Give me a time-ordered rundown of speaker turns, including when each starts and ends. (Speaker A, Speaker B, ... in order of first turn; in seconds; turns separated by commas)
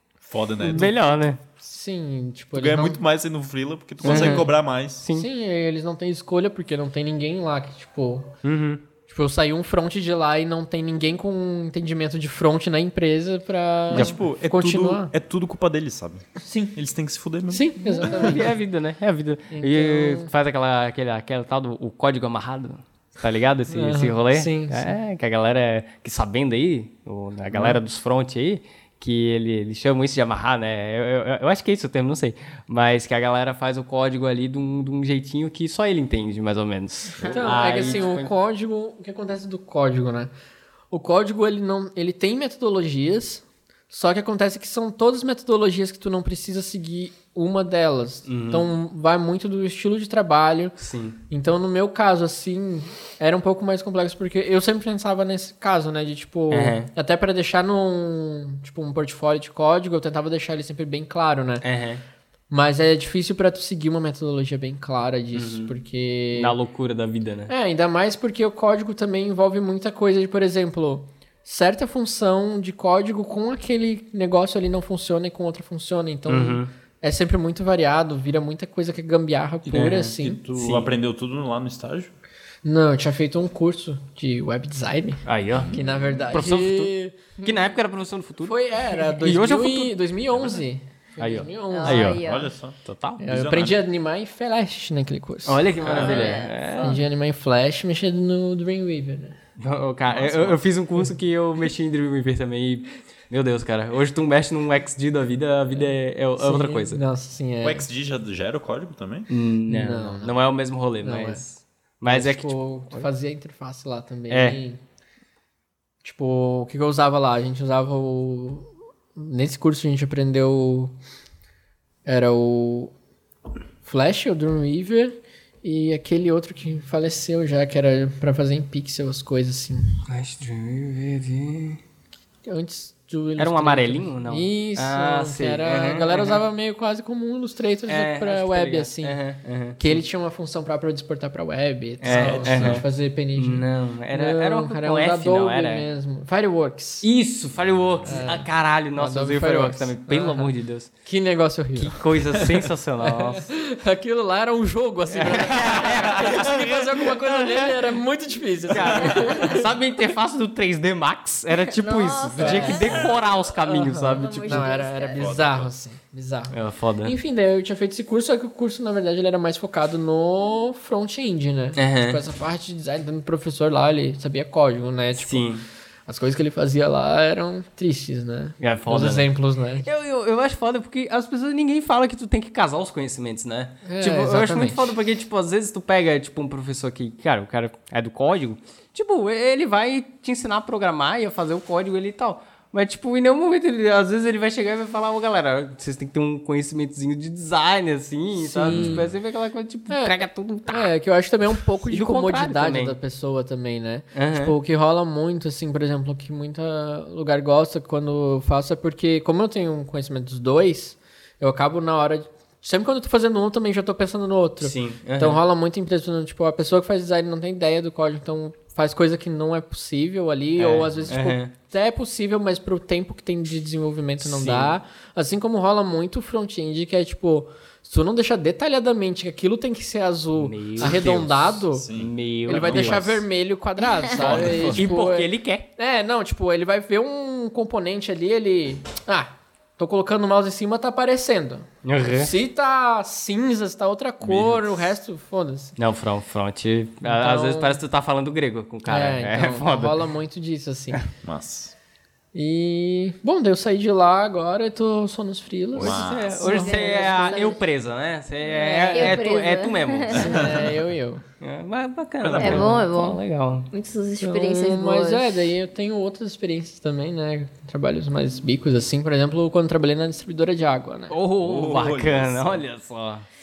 Speaker A: 0.2-1.4, Speaker B: 0.6-1.4, Speaker C: 1.6-3.0, Speaker A: 2.5-5.0, Speaker B: 4.0-4.5, Speaker C: 4.0-4.5, Speaker B: 5.0-5.3, Speaker C: 5.1-8.3, Speaker B: 8.4-8.8, Speaker C: 9.1-15.1, Speaker A: 13.9-18.4, Speaker C: 16.4-16.7, Speaker C: 17.5-18.5, Speaker B: 17.9-38.3, Speaker C: 19.5-20.3, Speaker C: 23.7-24.9, Speaker C: 37.2-40.3, Speaker C: 40.9-50.8, Speaker B: 48.3-48.7, Speaker B: 50.8-51.2, Speaker C: 51.3-61.6, Speaker B: 56.5-56.9, Speaker B: 61.6-62.0, Speaker C: 62.5-66.6, Speaker B: 65.3-65.7, Speaker B: 66.3-67.5, Speaker C: 67.5-80.4, Speaker B: 76.3-76.7, Speaker B: 79.7-80.9, Speaker A: 80.2-82.1, Speaker C: 82.6-87.2, Speaker B: 85.3-90.0, Speaker C: 88.4-92.2, Speaker B: 91.2-92.2, Speaker D: 91.7-92.5, Speaker A: 92.2-93.8, Speaker B: 92.8-93.2, Speaker C: 93.2-99.4, Speaker B: 95.5-97.0, Speaker D: 95.9-97.0, Speaker B: 99.6-107.0, Speaker A: 100.1-100.6, Speaker C: 106.4-107.9, Speaker A: 107.6-109.3, Speaker B: 109.3-113.1, Speaker C: 109.7-110.4, Speaker C: 111.0-111.4, Speaker C: 112.1-114.8, Speaker B: 114.3-114.6, Speaker C: 116.0-121.0, Speaker C: 122.1-122.9, Speaker C: 123.8-130.0, Speaker B: 130.1-131.8, Speaker C: 132.4-139.2, Speaker B: 133.4-136.4, Speaker B: 137.9-140.0, Speaker C: 139.8-147.1, Speaker B: 142.0-145.9, Speaker A: 142.1-142.8, Speaker B: 147.0-150.9, Speaker A: 147.6-148.2, Speaker C: 148.1-150.5, Speaker C: 151.1-159.7, Speaker B: 151.8-153.4, Speaker B: 155.1-158.0, Speaker B: 158.7-164.8, Speaker D: 161.6-163.2, Speaker C: 162.4-163.0, Speaker C: 163.7-175.5, Speaker D: 163.9-165.3, Speaker A: 165.2-165.7, Speaker B: 166.5-167.2, Speaker B: 171.8-172.2, Speaker B: 175.2-175.7, Speaker C: 176.1-179.9, Speaker B: 178.6-179.3, Speaker B: 179.8-200.9, Speaker C: 183.8-185.0, Speaker C: 198.4-199.1, Speaker A: 198.7-199.1, Speaker C: 199.9-231.9, Speaker B: 201.9-203.0, Speaker B: 204.1-204.6, Speaker B: 214.6-215.4, Speaker B: 220.6-221.5, Speaker B: 224.2-224.8, Speaker B: 230.4-233.2, Speaker A: 230.8-231.1, Speaker A: 231.7-233.2, Speaker C: 232.5-245.8, Speaker A: 234.1-234.9, Speaker B: 234.2-235.7, Speaker B: 241.8-242.3, Speaker A: 244.2-244.9, Speaker B: 245.8-250.0, Speaker C: 247.0-247.8, Speaker C: 248.9-251.0, Speaker A: 251.2-251.8, Speaker C: 252.3-257.4, Speaker A: 255.8-256.6, Speaker B: 255.8-260.4, Speaker D: 256.5-257.6, Speaker D: 258.5-260.5, Speaker C: 258.9-259.2, Speaker A: 260.1-260.7, Speaker C: 260.2-261.2, Speaker B: 261.4-263.7, Speaker A: 262.2-262.8, Speaker D: 262.4-265.3, Speaker C: 264.2-271.1, Speaker B: 271.1-273.3, Speaker A: 271.4-272.6